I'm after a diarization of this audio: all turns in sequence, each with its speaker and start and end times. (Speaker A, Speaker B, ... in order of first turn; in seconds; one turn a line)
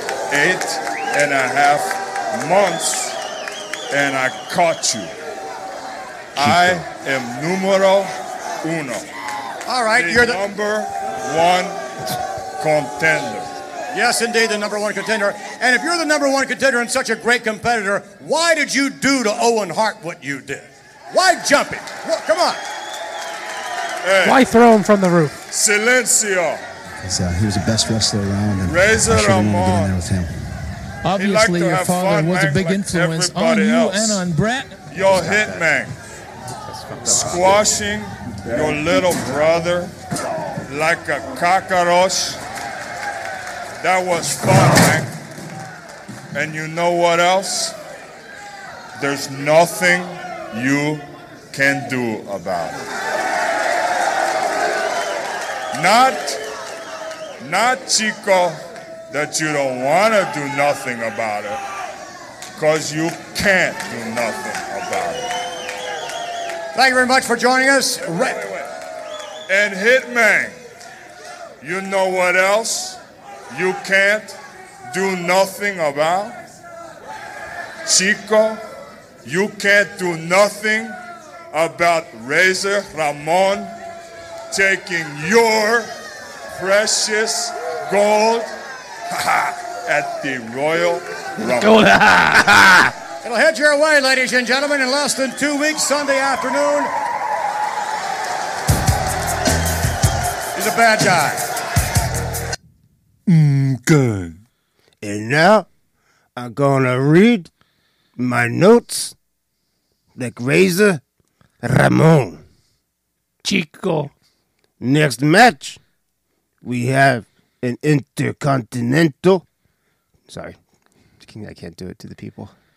Speaker A: 0.3-3.2
Speaker A: 3.9-5.1
Speaker A: 6.4-9.1
Speaker B: 9.7-10.4
Speaker A: 9.9-11.8
Speaker A: 12.6-13.5
Speaker B: 13.9-22.6
Speaker A: 24.0-24.4
Speaker C: 24.2-25.4
Speaker A: 25.5-26.6
Speaker D: 27.0-30.5
Speaker A: 28.6-30.0
Speaker A: 31.1-34.2
Speaker A: 34.9-35.9
Speaker E: 35.0-35.7
Speaker E: 36.7-37.6
Speaker A: 37.2-39.9
Speaker A: 40.7-42.4
Speaker A: 43.8-45.1
Speaker A: 46.3-47.8
Speaker A: 49.0-52.8
Speaker A: 55.7-56.4
Speaker A: 57.4-61.6
Speaker A: 62.6-65.3
Speaker B: 66.7-68.4
Speaker A: 68.1-68.7
Speaker A: 69.5-70.6
Speaker A: 71.6-73.0
Speaker A: 73.5-74.4
Speaker A: 74.9-76.4
Speaker A: 77.9-78.6
Speaker A: 79.2-81.0
Speaker A: 81.5-83.7
Speaker A: 84.5-85.9
Speaker A: 86.5-88.5
Speaker A: 89.1-91.8
Speaker C: 91.6-92.8
Speaker B: 93.2-96.9
Speaker B: 100.5-101.4
Speaker E: 105.0-105.7
Speaker E: 106.4-107.5
Speaker E: 108.2-109.2
Speaker E: 110.2-111.0
Speaker E: 111.6-112.4
Speaker C: 113.4-114.1
Speaker E: 114.8-115.8
Speaker E: 116.6-119.5
Speaker E: 120.3-120.6
Speaker E: 121.2-122.5